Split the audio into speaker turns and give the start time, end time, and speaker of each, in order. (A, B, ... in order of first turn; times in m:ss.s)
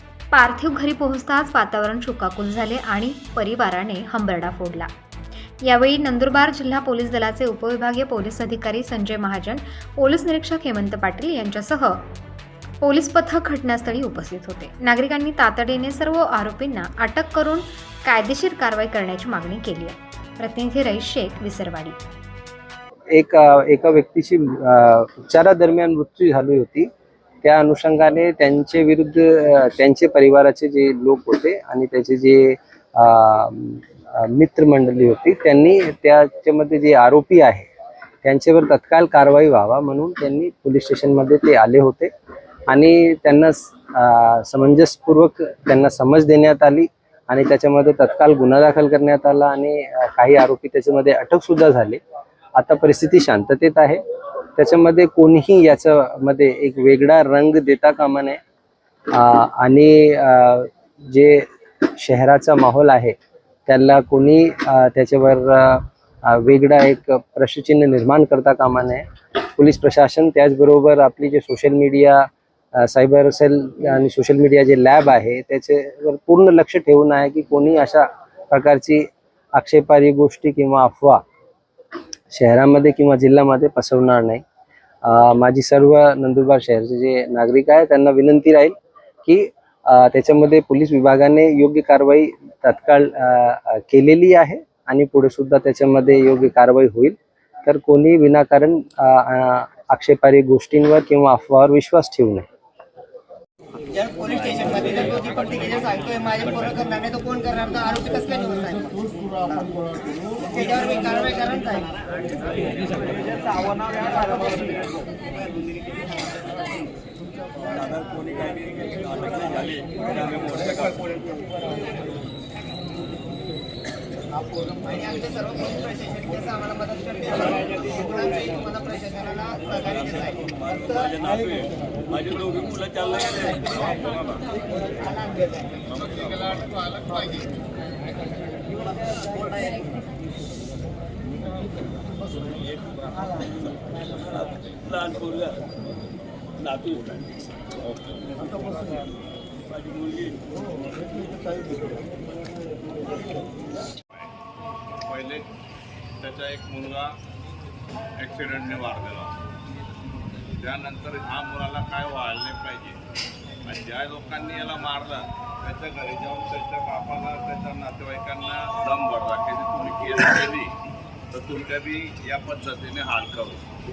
0:00.3-0:04.9 A
0:05.6-0:12.0 A
0:12.8-0:22.0 A
0:23.1-0:26.9 B
0:27.4-0:37.7 B
0:38.2-0:42.1 B
0:42.7-0:52.0 B
0:52.6-0:54.0 B
0:54.6-0:58.4 B
0:59.1-1:03.1 B
1:03.7-1:21.2 B
1:22.3-1:24.4 B
1:25.0-1:28.7 B
1:29.2-1:37.1 B
1:37.6-1:42.4 B
1:43.9-1:52.0 C
1:53.6-1:54.8 C
1:59.2-1:59.8 C
2:00.5-2:00.9 C
2:04.8-2:11.5 C
2:12.5-2:13.4 C
2:13.4-2:14.5 D
2:15.0-2:15.6 C
2:15.9-2:17.0 D
2:19.5-2:19.8 C
2:35.0-2:35.5 D
2:36.2-2:37.2 D
2:38.2-2:39.4 D
2:40.5-2:43.0 D
2:43.6-2:50.7 D
2:51.3-2:53.6 D